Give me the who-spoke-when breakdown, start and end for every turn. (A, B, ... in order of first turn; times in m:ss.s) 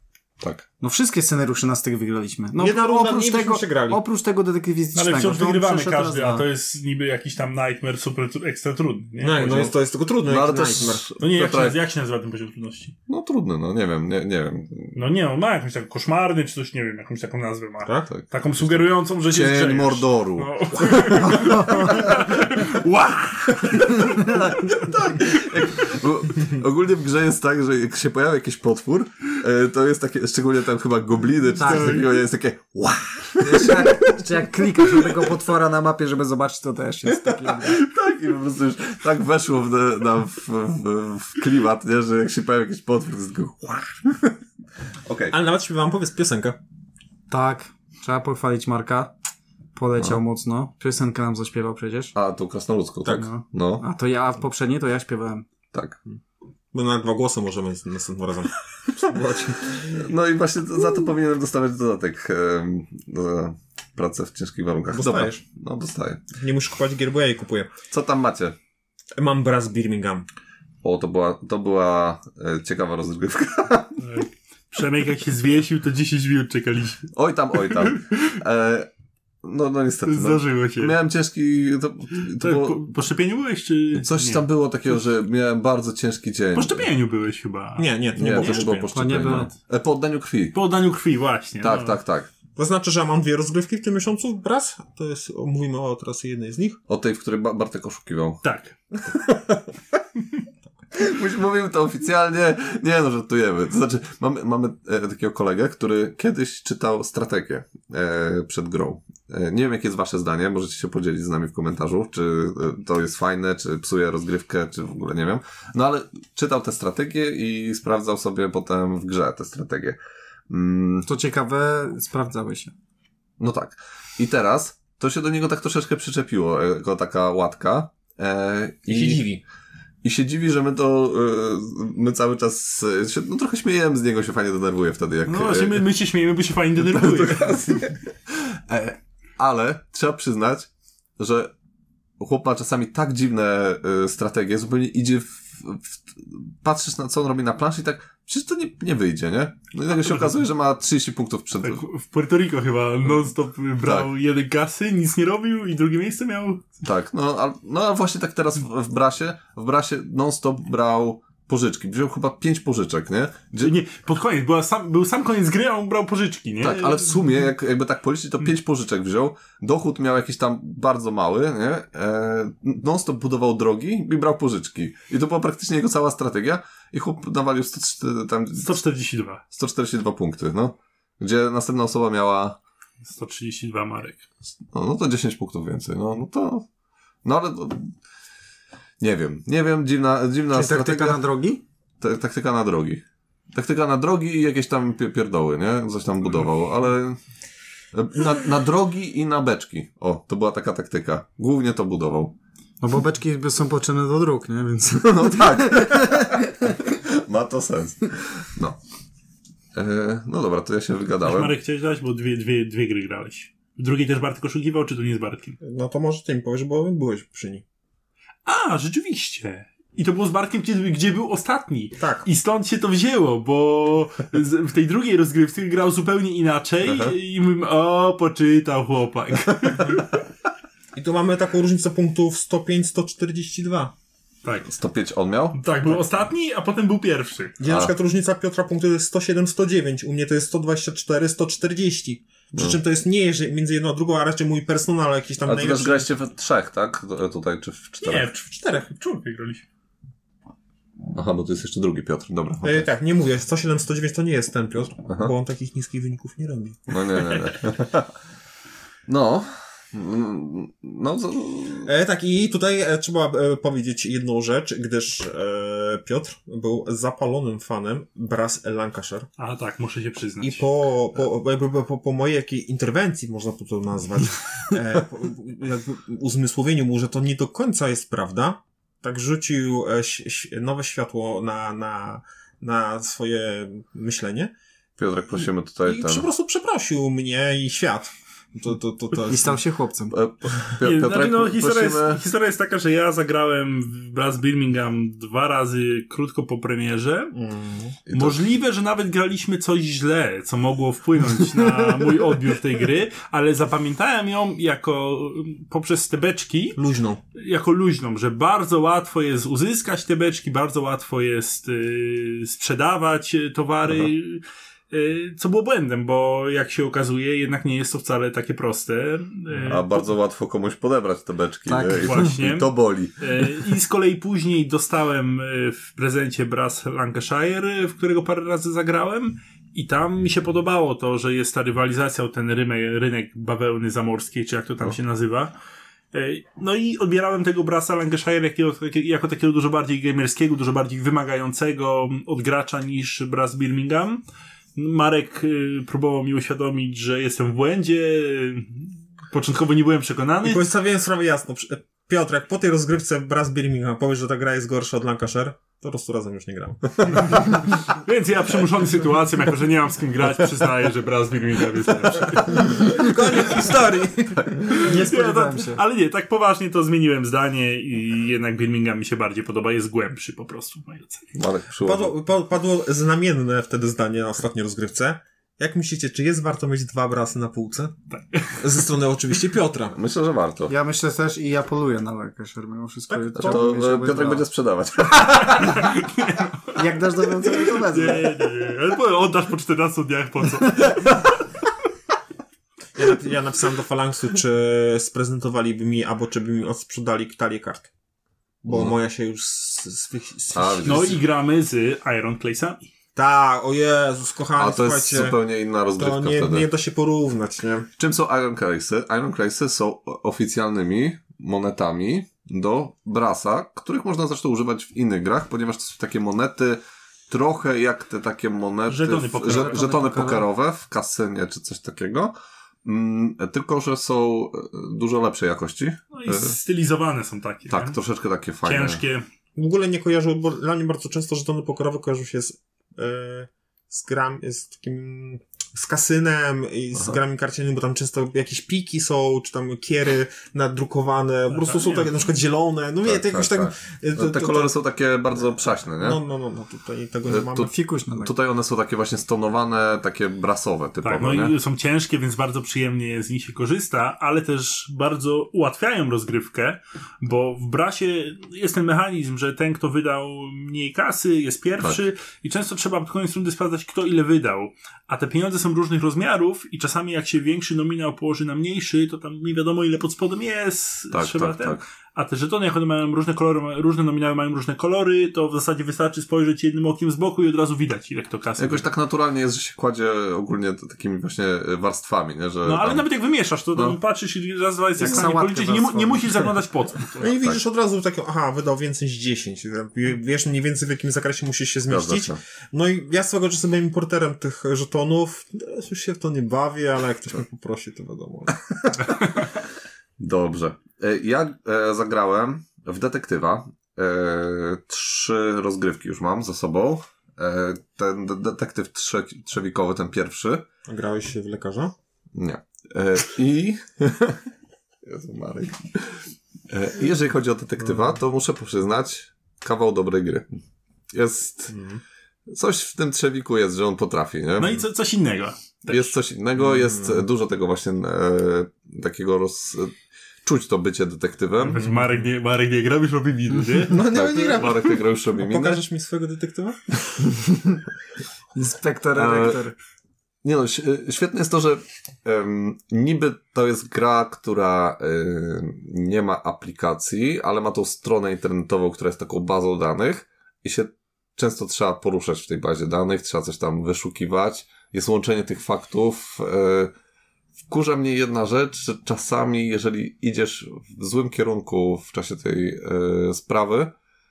0:00.4-0:00.7 A
0:00.8-0:06.4 B
0:02.6-0:04.0 C
0:04.9-0:09.7 D
0:09.2-0:11.0 C
0:10.3-0:11.8 A
0:11.2-0:12.9 D
0:13.1-0:15.0 A
0:14.9-0:24.4 D
0:18.1-0:22.7 A
0:23.6-0:34.2 A
0:31.6-0:32.0 B
0:33.4-0:37.8 B
0:37.0-0:44.4 A
0:45.0-0:45.4 A
0:45.3-0:46.6 C
0:47.3-0:49.1 B
0:49.7-0:52.1 B
0:50.0-0:50.2 A
0:52.1-0:53.8 A
0:53.0-0:53.3 C
0:53.1-0:55.4 B
0:55.7-0:56.0 A
0:56.7-1:00.0 C
0:59.8-1:06.2 A
1:04.9-1:05.4 C
1:06.3-1:07.7 C
1:07.9-1:08.6 A
1:09.1-1:10.2 C
1:10.8-1:14.0 A
1:14.0-1:18.3 D
1:17.1-1:18.9 A
1:19.4-1:22.9 A
1:20.0-1:20.9 D
1:22.4-1:24.4 D
1:23.9-1:26.9 A
1:26.5-1:28.8 D
1:27.8-1:28.9 C
1:28.2-1:30.6 A
1:28.9-1:29.5 B
1:30.5-1:32.0 D
1:31.6-1:32.3 A
1:32.6-1:36.8 C
1:36.9-1:38.4 A
1:38.4-1:38.7 D
1:40.9-2:00.0 A
2:00.5-2:01.1 A
2:01.1-2:02.7 B
2:03.4-2:09.2 A
2:08.9-2:09.4 C
2:10.0-2:15.8 A
2:15.2-2:17.6 D
2:16.9-2:21.5 A
2:22.2-2:31.8 A
2:31.6-2:36.7 D
2:33.8-2:34.1 A
2:36.8-2:43.7 A
2:43.6-2:47.3 D
2:46.6-2:58.8 A
2:58.6-2:59.4 D
2:59.5-3:02.6 A
3:03.0-3:04.2 D
3:04.7-3:06.6 A
3:07.2-3:07.9 A
3:09.0-3:11.2 A
3:10.5-3:11.6 B
3:12.0-3:13.0 A
3:13.5-3:17.2 A
3:17.9-3:22.3 A
3:22.8-3:26.4 B
3:25.0-3:28.8 A
3:29.7-3:31.5 A
3:31.2-3:35.6 D
3:35.6-3:37.6 C
3:38.4-3:50.2 D
3:42.0-3:42.3 C
3:46.8-3:47.1 A
3:50.9-3:53.9 C
3:54.4-3:54.7 D
3:54.7-3:55.6 A
3:55.5-3:57.6 D
3:57.6-4:06.1 C
3:57.7-3:57.9 A
4:05.4-4:08.3 A
4:08.0-4:09.6 D
4:11.1-4:12.9 A
4:12.6-4:17.0 C
4:15.1-4:15.3 A
4:16.9-4:18.1 A
4:19.1-4:21.9 A
4:21.8-4:29.3 C
4:29.4-4:30.7 D
4:30.4-4:44.5 C
4:45.0-4:46.2 A
4:45.8-4:49.6 C
4:49.3-4:50.1 B
4:50.1-4:52.2 A
4:50.7-4:57.3 D
4:57.3-4:58.0 C
4:58.1-4:58.4 A
4:58.1-5:06.8 D
5:06.8-5:07.2 C
5:07.3-5:20.1 D
5:19.6-5:23.5 A
5:21.7-5:22.2 B
5:21.9-5:35.5 D
5:36.1-5:44.2 D
5:44.8-5:50.7 D
5:50.4-5:57.6 C
5:57.9-6:03.1 D
6:02.5-6:04.8 C
6:04.7-6:11.3 D
6:04.7-6:05.8 B
6:11.3-6:12.1 A
6:11.8-6:17.9 C
6:18.1-6:18.7 D
6:18.6-6:20.0 C
6:19.9-6:20.7 A
6:20.7-6:24.4 B
6:23.1-6:23.8 C
6:23.3-6:25.9 A
6:25.4-6:31.3 D
6:26.7-6:28.3 B
6:33.0-6:37.9 C
6:38.6-6:41.2 C
6:38.7-6:38.9 A
6:40.5-6:41.2 A
6:40.8-6:42.9 D
6:43.1-6:45.4 C
6:44.6-6:46.7 A
6:46.0-6:47.9 C
6:48.0-7:06.6 A
6:58.9-7:00.0 D
6:59.5-7:00.4 B
7:06.1-7:08.0 D
7:07.7-7:09.0 A
7:08.6-7:09.2 D
7:09.6-7:24.7 C
7:21.5-7:22.1 D
7:23.0-7:26.2 A
7:26.0-7:27.7 C
7:27.3-7:31.5 A
7:27.6-7:28.3 B
7:31.0-7:58.9 D
7:51.1-7:51.8 A
7:58.6-8:03.0 A
8:02.6-8:07.3 D
8:05.0-8:06.5 B
8:07.2-8:18.9 C
8:07.2-8:07.6 A
8:11.9-8:12.4 A
8:20.2-8:30.6 A
8:30.8-8:31.9 C
8:32.3-8:34.4 A
8:35.0-8:40.6 A
8:41.1-8:41.8 A
8:41.7-8:42.0 C
8:42.5-8:44.8 A
8:44.6-8:46.1 D
8:45.9-8:51.9 A
8:46.6-8:47.2 C
8:51.6-8:54.0 D
8:51.8-8:52.1 C
8:53.9-8:56.8 C
8:54.1-8:55.8 A
8:58.5-8:59.7 B
8:59.1-8:59.6 A
9:00.4-9:16.9 A
9:17.7-9:23.9 A